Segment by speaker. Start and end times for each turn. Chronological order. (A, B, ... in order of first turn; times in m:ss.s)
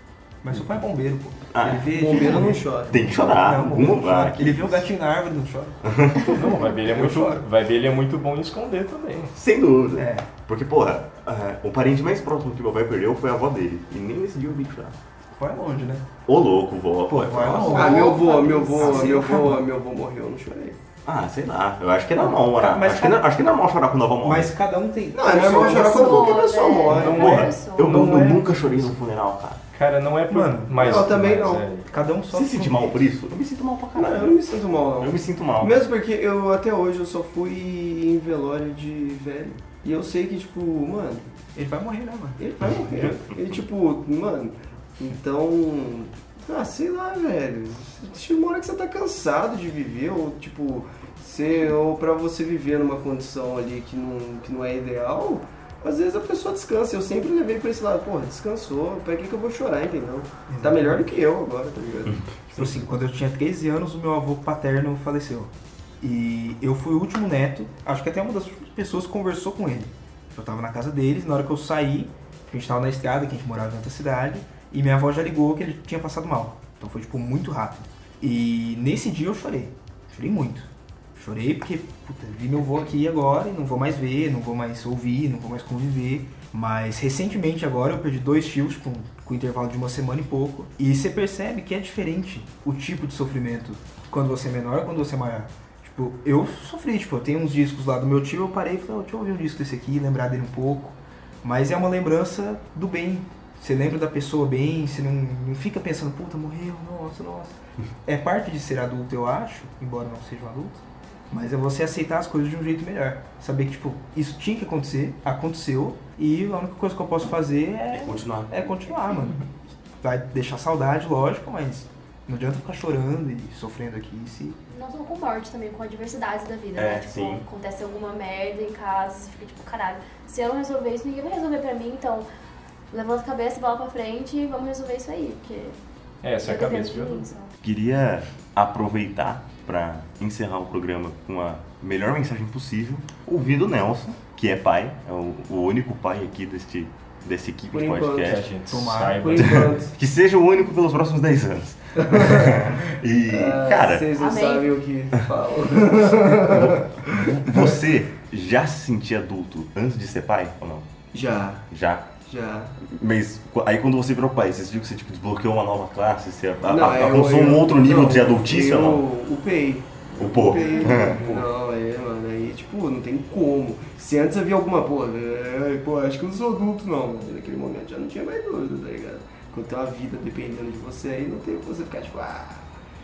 0:00.4-0:07.4 A
0:01.5-0:01.9 B
0:01.9-0:03.2 C
0:02.9-0:04.8 B
0:05.8-0:06.4 B
0:06.3-0:09.3 D
0:09.3-0:15.0 B
0:10.0-0:10.3 A
0:15.3-0:16.1 A
0:16.2-0:18.1 B
0:17.1-0:19.6 A
0:17.6-0:19.1 E
0:17.6-0:20.8 C
0:21.0-0:24.5 B
0:22.5-0:23.3 A
0:24.2-0:26.3 A
0:25.1-0:27.2 C
0:25.4-0:28.0 E
0:26.9-0:28.4 D
0:27.0-0:29.6 B
0:29.7-0:31.9 D
0:30.3-0:30.9 A
0:30.8-0:31.6 C
0:31.9-0:33.0 A
0:32.3-0:34.4 B
0:33.9-0:41.3 C
0:35.0-0:35.8 B
0:41.6-0:42.4 A
0:42.4-1:02.2 C
0:42.8-0:43.3 B
1:00.5-1:01.1 A
1:02.1-1:02.7 B
1:02.5-1:59.4 A
1:57.9-1:58.6 B
2:00.0-2:04.6 A
2:04.7-2:12.3 E
2:06.8-2:07.4 B
2:12.9-2:15.8 E
2:16.2-2:17.2 D
2:16.4-2:17.5 E
2:17.6-2:28.4 B
2:27.7-2:28.4 C
2:28.2-2:29.6 D
2:28.7-2:29.4 A
2:29.1-2:29.9 C
2:29.9-2:34.1 B
2:32.0-2:32.5 C
2:33.2-2:37.2 C
2:34.2-2:34.7 E
2:36.4-2:40.9 B
2:41.1-2:41.6 C
2:41.7-2:42.1 B
2:42.2-2:42.7 C
2:42.8-2:49.0 B
2:46.6-3:02.7 C
2:50.2-2:51.3 B
2:50.6-2:50.9 E